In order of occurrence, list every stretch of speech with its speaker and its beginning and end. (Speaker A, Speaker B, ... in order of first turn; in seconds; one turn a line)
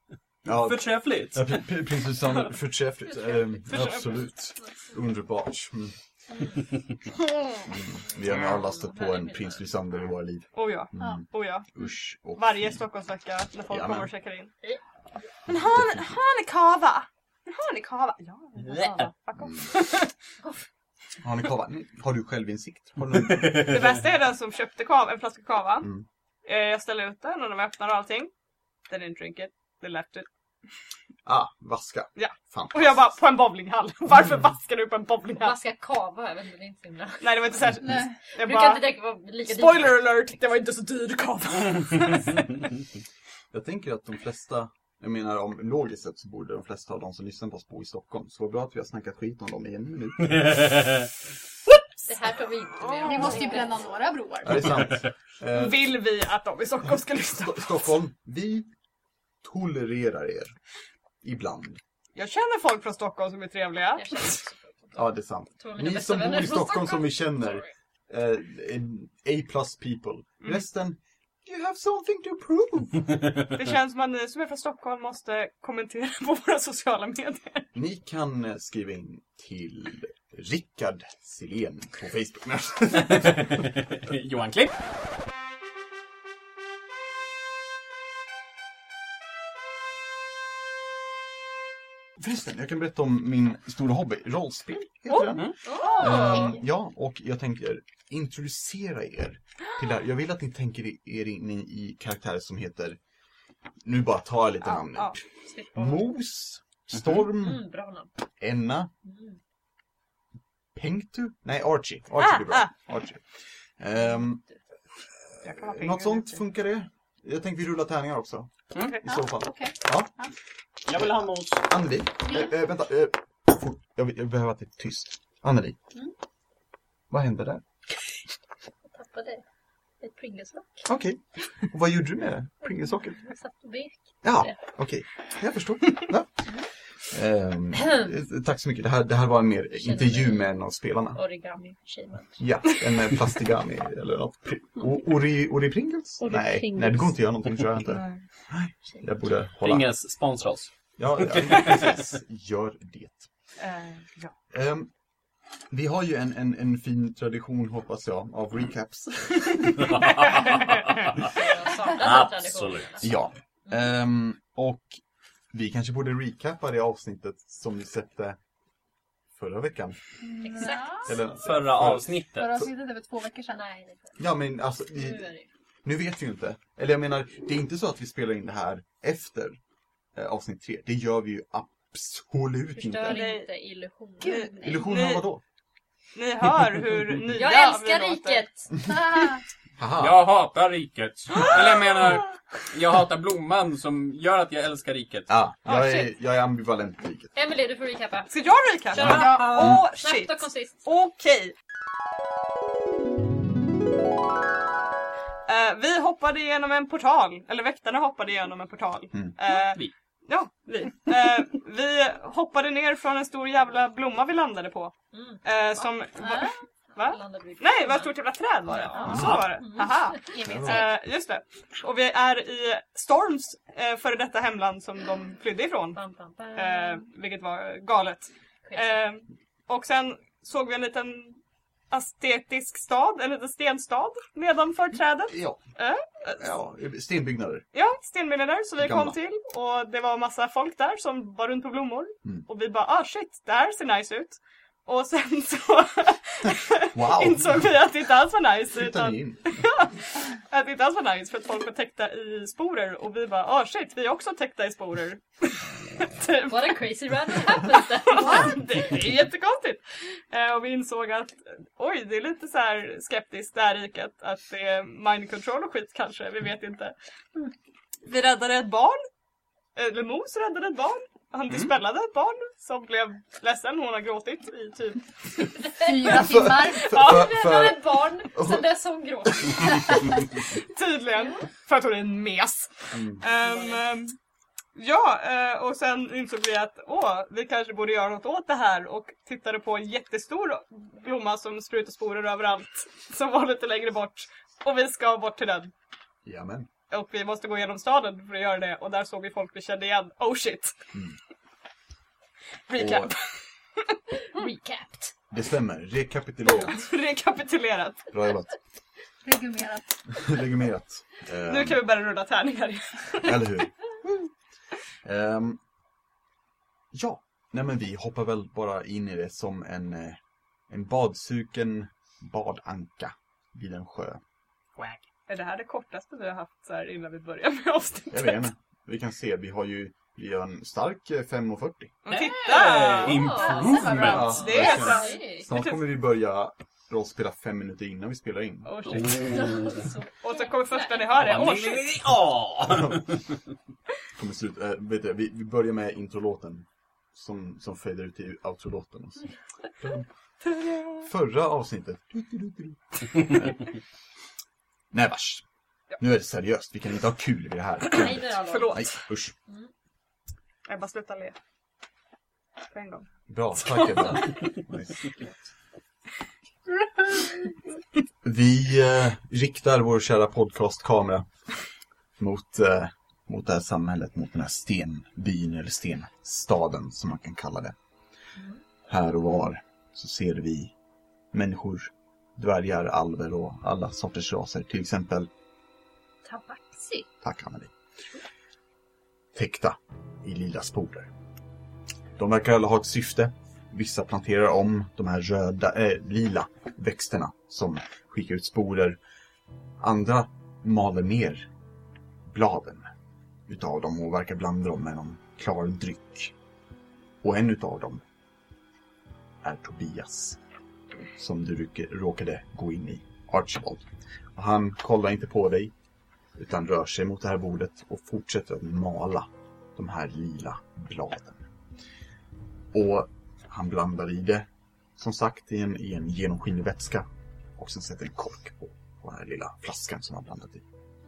Speaker A: 0.5-6.0
Speaker B: 0.5-1.6
Speaker C: 3.7-4.3
Speaker A: 7.7-12.8
Speaker D: 8.5-9.6
Speaker C: 10.5-11.7
Speaker C: 12.4-14.5
Speaker A: 13.7-14.1
Speaker C: 15.5-20.1
Speaker A: 15.5-16.1
Speaker B: 18.6-19.1
Speaker A: 21.2-23.8
Speaker C: 23.5-25.9
Speaker C: 26.4-28.3
Speaker C: 28.9-30.3
Speaker A: 31.2-33.1
Speaker C: 32.2-35.6
Speaker D: 35.4-40.0
Speaker C: 37.2-38.9
Speaker E: 37.8-38.1
Speaker C: 39.5-42.6
Speaker A: 43.5-50.9
Speaker B: 50.4-51.1
Speaker D: 52.1-53.9
Speaker E: 53.0-54.9
Speaker A: 54.4-55.9
Speaker C: 55.5-57.9
Speaker A: 57.3-58.7
Speaker A: 59.4-60.6
Speaker A: 61.2-61.8
Speaker C: 62.1-64.5
Speaker D: 64.0-65.1
Speaker A: 65.0-73.2
Speaker D: 65.6-67.7
Speaker C: 73.5-77.7
Speaker A: 77.7-83.5
Speaker B: 83.0-84.8
Speaker A: 92.2-103.0
Speaker D: 95.6-96.6
Speaker C: 95.7-96.5
Speaker A: 103.8-107.6
Speaker C: 104.7-105.2
Speaker D: 105.5-106.0
Speaker D: 107.3-108.1
Speaker A: 108.4-108.9
Speaker D: 109.0-109.4
Speaker A: 110.7-113.3
Speaker C: 112.2-112.7
Speaker A: 113.8-114.4
Speaker A: 115.2-118.5
Speaker C: 115.4-116.3
Speaker A: 119.0-120.1
Speaker E: 119.0-120.3
Speaker B: 120.9-121.7
Speaker A: 121.7-125.8
Speaker A: 127.1-127.6
Speaker D: 128.9-129.4
Speaker D: 130.0-130.9
Speaker A: 130.9-133.2
Speaker D: 132.8-134.6
Speaker A: 134.2-141.2
Speaker D: 137.8-138.1
Speaker D: 139.8-140.6
Speaker D: 141.1-142.4
Speaker A: 142.4-149.9
Speaker D: 146.2-147.2
Speaker C: 147.9-148.2
Speaker B: 149.6-151.8
Speaker A: 151.0-153.3
Speaker C: 153.6-154.3
Speaker A: 154.5-154.9
Speaker A: 155.7-160.0
Speaker B: 159.8-161.3
Speaker D: 161.2-163.1
Speaker B: 161.9-163.1
Speaker A: 163.0-165.0
Speaker A: 165.5-168.4
Speaker A: 169.3-170.0
Speaker E: 170.2-171.2
Speaker D: 170.4-171.2
Speaker A: 171.0-172.1
Speaker B: 171.4-172.6
Speaker E: 172.4-173.6
Speaker D: 173.6-174.2
Speaker A: 174.2-175.3
Speaker D: 175.0-175.5
Speaker A: 175.8-179.6
Speaker A: 180.1-183.2
Speaker D: 182.8-184.9
Speaker C: 183.1-183.5
Speaker C: 184.2-185.2
Speaker E: 184.2-184.8
Speaker A: 184.6-185.4
Speaker C: 186.2-188.4
Speaker D: 187.3-189.4
Speaker A: 189.8-190.2
Speaker B: 190.0-195.3
Speaker A: 195.3-197.3
Speaker C: 195.7-196.1
Speaker D: 197.3-198.3
Speaker C: 198.3-201.5
Speaker D: 198.9-200.8
Speaker E: 199.0-199.7
Speaker C: 205.5-226.0
Speaker B: 209.5-209.9
Speaker D: 215.1-218.1
Speaker D: 218.7-220.7
Speaker A: 219.0-219.5
Speaker E: 220.3-220.9
Speaker A: 220.4-220.9
Speaker D: 225.9-227.1
Speaker C: 226.5-231.4
Speaker D: 228.6-229.0
Speaker C: 231.9-236.5
Speaker A: 235.3-235.6
Speaker A: 236.4-237.6
Speaker C: 237.7-266.9
Speaker A: 238.8-239.2
Speaker A: 246.9-247.7
Speaker A: 248.7-249.6
Speaker D: 256.4-258.6
Speaker C: 268.1-269.0
Speaker C: 269.8-275.6
Speaker E: 275.7-277.1
Speaker A: 276.1-278.7
Speaker D: 276.9-280.3
Speaker C: 280.6-284.1
Speaker A: 282.9-283.2
Speaker D: 283.4-283.8
Speaker C: 284.8-295.7
Speaker A: 296.2-296.7
Speaker C: 296.9-300.8
Speaker C: 302.7-304.5
Speaker A: 302.8-303.1
Speaker D: 304.3-305.1
Speaker A: 305.3-306.8
Speaker C: 306.5-308.1
Speaker A: 308.1-308.6
Speaker E: 309.2-310.0
Speaker A: 310.1-311.8
Speaker C: 311.5-313.4
Speaker A: 313.2-313.9
Speaker A: 315.0-315.6
Speaker A: 316.9-324.2
Speaker C: 325.3-328.5
Speaker A: 328.1-332.0
Speaker C: 332.1-335.7
Speaker B: 332.1-334.5
Speaker D: 333.1-335.5
Speaker E: 333.6-334.2
Speaker A: 333.9-339.5
Speaker C: 338.7-341.9
Speaker D: 339.0-341.2
Speaker B: 339.3-339.7
Speaker B: 341.2-343.2
Speaker A: 344.2-350.1
Speaker C: 350.6-350.9
Speaker A: 351.0-353.7
Speaker A: 354.9-355.4
Speaker A: 356.0-359.4
Speaker D: 357.9-358.9
Speaker C: 358.4-359.0
Speaker C: 360.7-361.4
Speaker C: 362.7-363.1
Speaker A: 363.3-365.3
Speaker C: 363.7-364.3
Speaker A: 368.2-371.5
Speaker A: 372.2-377.8
Speaker A: 378.9-380.7
Speaker A: 381.3-385.3
Speaker D: 386.2-387.1
Speaker A: 387.2-387.7
Speaker A: 389.3-391.1
Speaker A: 392.2-399.0
Speaker A: 399.8-401.5
Speaker A: 402.2-402.9
Speaker A: 403.5-406.3
Speaker A: 407.2-408.0
Speaker A: 409.4-410.4
Speaker A: 411.1-415.7
Speaker A: 416.4-421.5
Speaker A: 422.7-430.7